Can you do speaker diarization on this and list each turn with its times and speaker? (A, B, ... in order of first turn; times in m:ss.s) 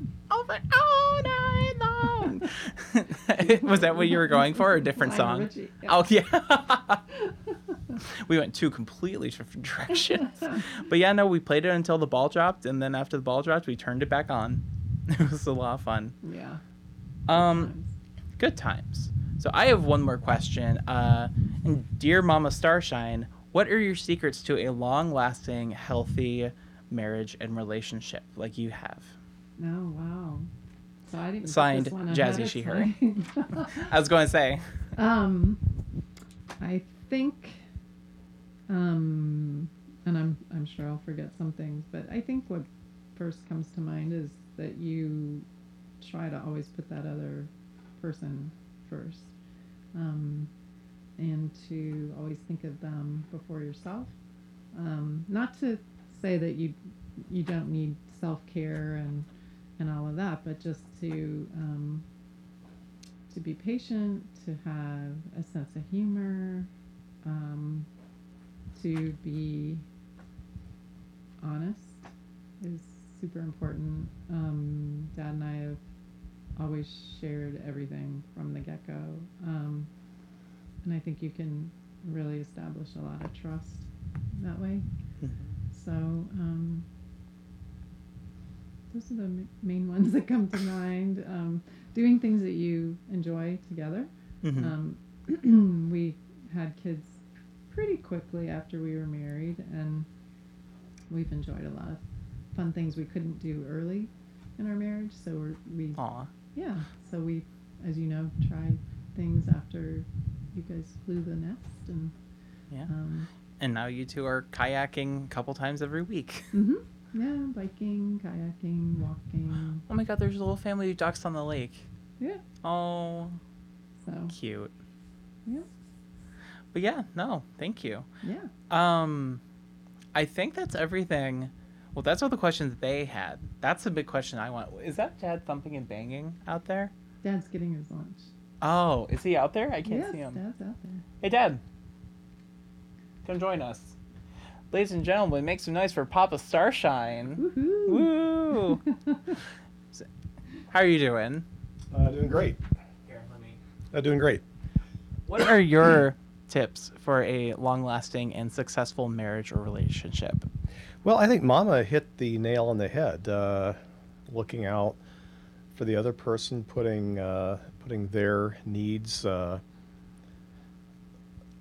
0:00.3-0:07.0 A
0:03.4-0:06.0 B
0:07.1-0:08.0 B
0:08.0-0:16.2 A
0:10.2-0:10.6 B
0:16.2-0:16.6 B
0:17.3-0:17.7 A
0:17.3-0:17.9 B
0:18.4-0:29.1 A
0:29.6-0:30.5 B
0:31.1-0:33.9 B
0:31.4-0:32.9 A
0:33.7-0:34.6 A
0:35.0-0:35.6 B
0:36.6-0:37.6 B
0:38.7-0:45.5 B
0:46.0-0:49.3 B
0:50.0-0:50.5 B
0:51.2-0:54.1 B
0:54.8-0:59.3 B
0:59.8-1:02.0 B
1:03.3-1:06.7 B
1:07.2-1:07.9 B
1:08.8-1:09.8 B
1:11.4-1:12.0 B
1:12.6-1:15.8 B
1:16.6-1:19.9 B
1:20.8-1:24.9 B
1:25.2-1:25.5 A
1:25.7-1:26.9 B
1:28.9-1:40.1 B
1:34.4-1:34.7 A
1:41.1-1:42.0 B
1:42.5-1:46.0 B
1:46.0-1:46.3 A
1:46.5-1:52.1 B
1:52.9-1:53.3 B
1:53.6-1:56.5 A
1:56.5-1:59.8 B
1:59.9-2:01.9 A
2:02.6-2:03.4 A
2:04.0-2:04.4 B
2:04.3-2:04.7 A
2:06.7-2:08.1 A
2:08.2-2:08.5 B
2:08.7-2:09.4 A
2:10.1-2:16.9 A
2:17.2-2:18.3 B
2:18.6-2:20.4 A
2:19.8-2:21.0 B
2:21.2-2:21.6 A
2:23.2-2:24.0 A
2:24.7-2:28.8 A
2:27.4-2:29.4 B
2:30.7-2:31.4 A
2:31.9-2:32.6 C
2:33.1-2:33.6 A
2:33.9-2:34.4 C
2:35.3-2:40.4 A
2:41.0-2:43.8 C
2:44.3-2:45.0 C
2:45.7-2:49.6 C